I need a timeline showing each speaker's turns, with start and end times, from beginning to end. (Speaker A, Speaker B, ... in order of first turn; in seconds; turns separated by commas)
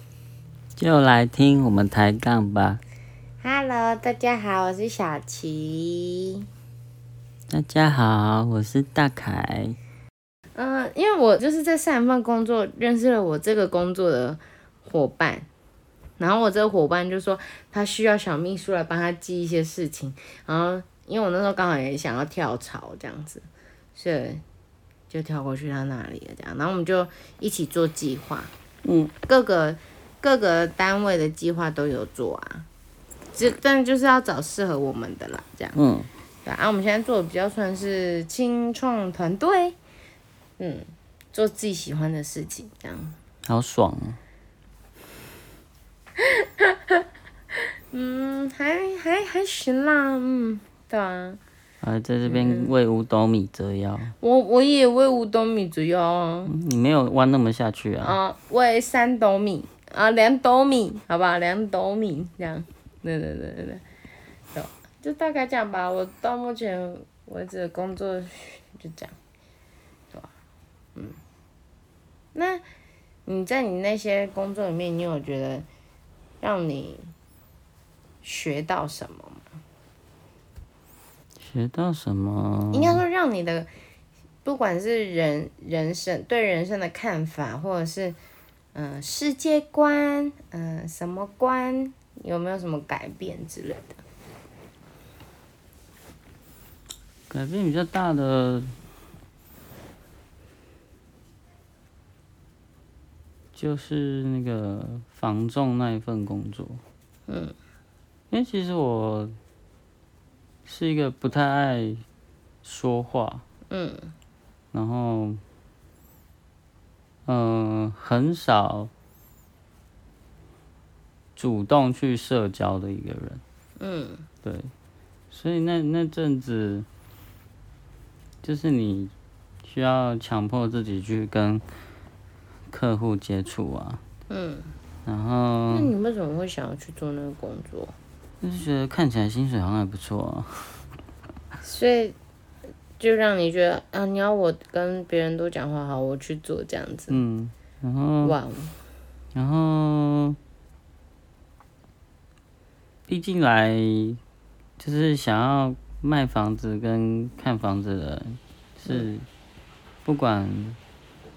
Speaker A: 0.8-2.8, Speaker B: 3.4-6.4, Speaker A: 7.5-9.8, Speaker B: 10.5-15.5, Speaker B: 16.2-24.4, Speaker B: 25.1-28.5, Speaker A: 28.8-29.1, Speaker B: 29.2-32.7, Speaker B: 33.3-35.8, Speaker A: 35.7-36.1, Speaker B: 36.4-39.8, Speaker B: 40.6-43.1, Speaker A: 43.5-44.2, Speaker B: 46.2-47.0, Speaker B: 47.9-51.4, Speaker A: 51.8-54.1, Speaker B: 52.2-52.7, Speaker B: 54.2-56.5, Speaker A: 56.5-58.2, Speaker B: 58.0-63.8, Speaker B: 64.5-69.1, Speaker B: 72.3-72.6, Speaker B: 73.2-75.7, Speaker B: 76.4-77.1, Speaker B: 78.2-79.5, Speaker A: 81.4-83.0, Speaker B: 82.7-83.7, Speaker B: 84.4-88.2, Speaker B: 88.7-94.0, Speaker A: 97.3-98.7, Speaker A: 103.5-106.8, Speaker B: 107.3-107.5, Speaker A: 108.3-109.3, Speaker A: 110.6-112.0, Speaker A: 112.6-113.4, Speaker B: 113.7-114.1, Speaker A: 114.7-115.4, Speaker A: 117.2-118.9, Speaker A: 121.3-123.4, Speaker B: 123.8-124.2, Speaker A: 124.4-124.7, Speaker A: 125.3-126.9, Speaker A: 128.4-129.1, Speaker A: 129.6-131.6, Speaker A: 132.7-134.0, Speaker B: 134.3-134.7, Speaker A: 135.0-135.9, Speaker B: 135.7-137.9, Speaker A: 138.4-140.8, Speaker B: 141.6-142.2, Speaker B: 143.0-147.2, Speaker A: 147.1-148.4, Speaker B: 148.2-148.8, Speaker A: 149.3-150.4, Speaker A: 153.1-154.2, Speaker A: 154.8-159.2, Speaker A: 160.0-160.8